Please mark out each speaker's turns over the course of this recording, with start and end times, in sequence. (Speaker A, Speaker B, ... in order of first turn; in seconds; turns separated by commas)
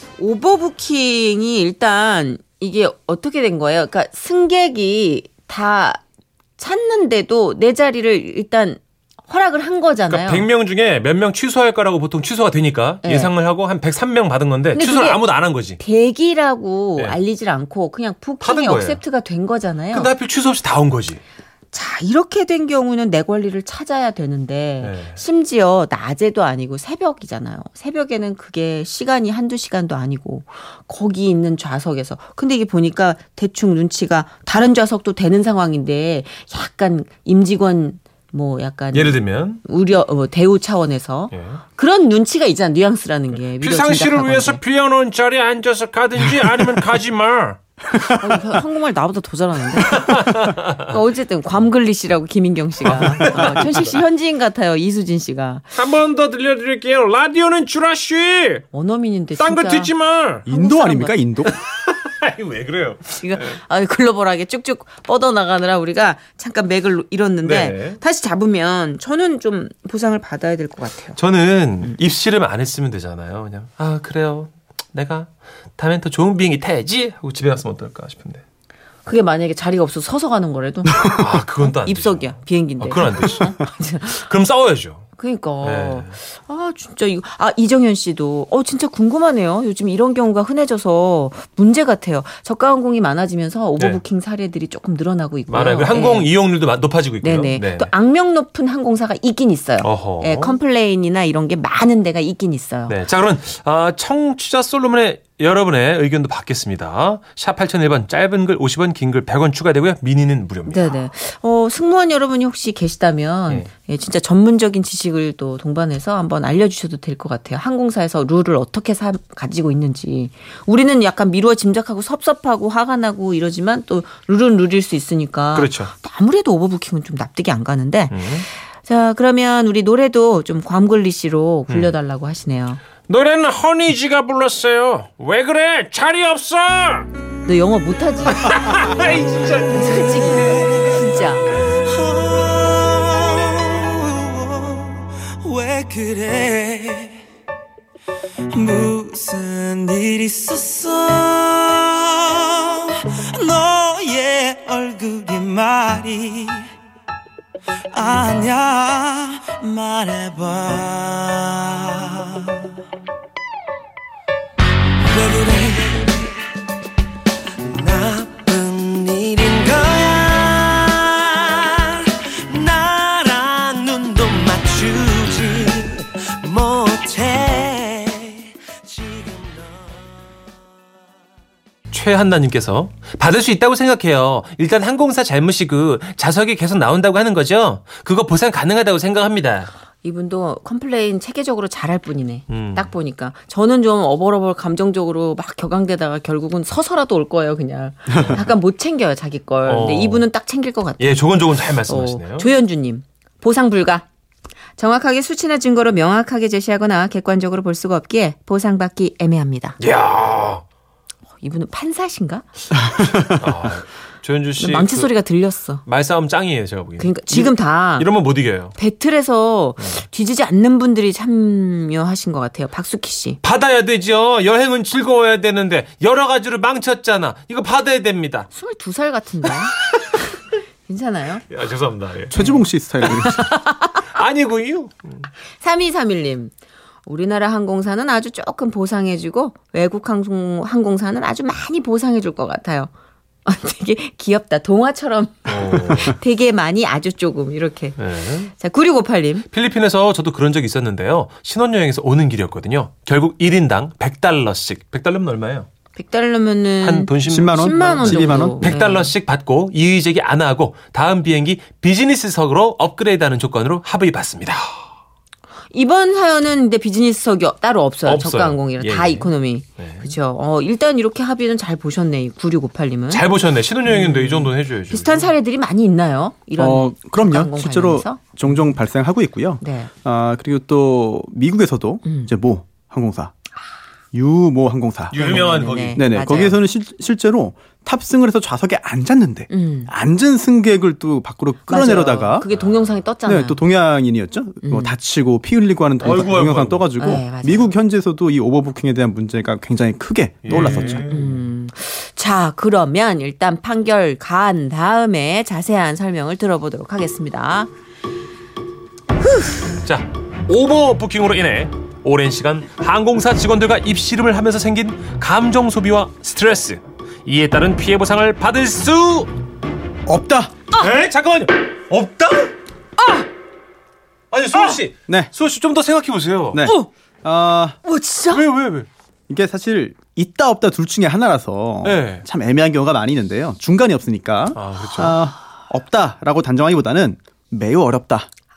Speaker A: 0.2-6.0, Speaker A: 6.6-10.4, Speaker B: 10.1-15.8, Speaker A: 13.0-13.3, Speaker A: 14.7-15.2, Speaker A: 15.8-20.1, Speaker B: 18.4-19.0, Speaker B: 19.9-21.2, Speaker A: 21.7-44.6, Speaker B: 24.8-25.2, Speaker B: 38.9-39.6, Speaker B: 41.3-41.6, Speaker B: 43.4-47.6, Speaker A: 48.0-55.7, Speaker B: 49.8-50.7, Speaker B: 52.8-54.0, Speaker B: 55.8-58.6, Speaker A: 58.7-59.9, Speaker B: 59.4-60.5, Speaker C: 60.5-61.5, Speaker A: 60.5-61.2, Speaker B: 61.5-63.5, Speaker A: 63.1-71.2, Speaker B: 67.4-68.0, Speaker B: 71.2-78.4, Speaker A: 79.0-84.2, Speaker B: 81.1-85.1, Speaker A: 85.2-96.3, Speaker B: 85.6-86.2, Speaker B: 95.5-97.9, Speaker A: 97.2-103.0, Speaker B: 99.8-100.6, Speaker B: 102.9-111.0, Speaker A: 110.7-132.8, Speaker B: 125.5-125.9, Speaker B: 128.1-128.4, Speaker B: 133.1-137.1, Speaker A: 137.4-138.6, Speaker B: 138.3-140.7, Speaker A: 139.6-141.6, Speaker D: 141.8-147.2, Speaker D: 148.5-156.7, Speaker D: 157.9-162.7, Speaker D: 165.0-166.3, Speaker D: 167.7-179.8, Speaker B: 181.9-189.7, Speaker A: 190.0-204.0, Speaker B: 192.5-192.9, Speaker C: 198.1-198.4, Speaker B: 198.1-198.4, Speaker B: 199.6-200.2, Speaker B: 201.0-202.5, Speaker A: 204.8-209.8, Speaker B: 209.8-210.6, Speaker A: 211.4-212.4, Speaker B: 213.2-215.1, Speaker A: 214.6-215.8, Speaker B: 215.8-218.7, Speaker A: 217.0-218.1, Speaker A: 218.7-223.4, Speaker B: 219.8-220.0, Speaker B: 223.4-228.5, Speaker A: 228.5-229.8, Speaker A: 230.9-231.4, Speaker B: 231.5-232.4, Speaker C: 232.3-233.5, Speaker A: 232.4-234.0, Speaker B: 234.0-235.3, Speaker A: 235.6-236.5, Speaker A: 237.0-242.9, Speaker A: 243.4-248.0, Speaker B: 245.5-246.2, Speaker B: 248.0-248.5, Speaker A: 248.5-249.4, Speaker B: 249.5-255.7, Speaker A: 255.9-259.1, Speaker B: 256.8-264.6, Speaker C: 257.2-258.8, Speaker A: 265.7-273.2, Speaker B: 268.0-270.1, Speaker B: 273.1-275.3, Speaker A: 273.9-278.2, Speaker C: 276.6-283.3, Speaker A: 279.6-279.9, Speaker A: 282.1-282.3, Speaker C: 284.1-292.5, Speaker B: 285.1-286.0, Speaker A: 285.1-286.6, Speaker A: 289.5-289.9, Speaker A: 291.7-293.6, Speaker B: 292.5-293.0, Speaker C: 293.2-301.1, Speaker A: 294.6-294.9, Speaker B: 296.0-296.9, Speaker A: 297.0-297.7, Speaker B: 300.4-301.4, Speaker A: 300.5-307.7, Speaker A: 309.2-309.8, Speaker B: 309.8-319.3, Speaker C: 320.1-320.5, Speaker B: 320.7-322.5, Speaker A: 323.0-323.2, Speaker B: 324.3-326.6, Speaker C: 326.5-327.8, Speaker A: 326.6-326.9, Speaker A: 327.8-328.4, Speaker B: 328.3-328.9, Speaker C: 329.3-338.3, Speaker B: 331.8-332.2, Speaker B: 334.5-335.2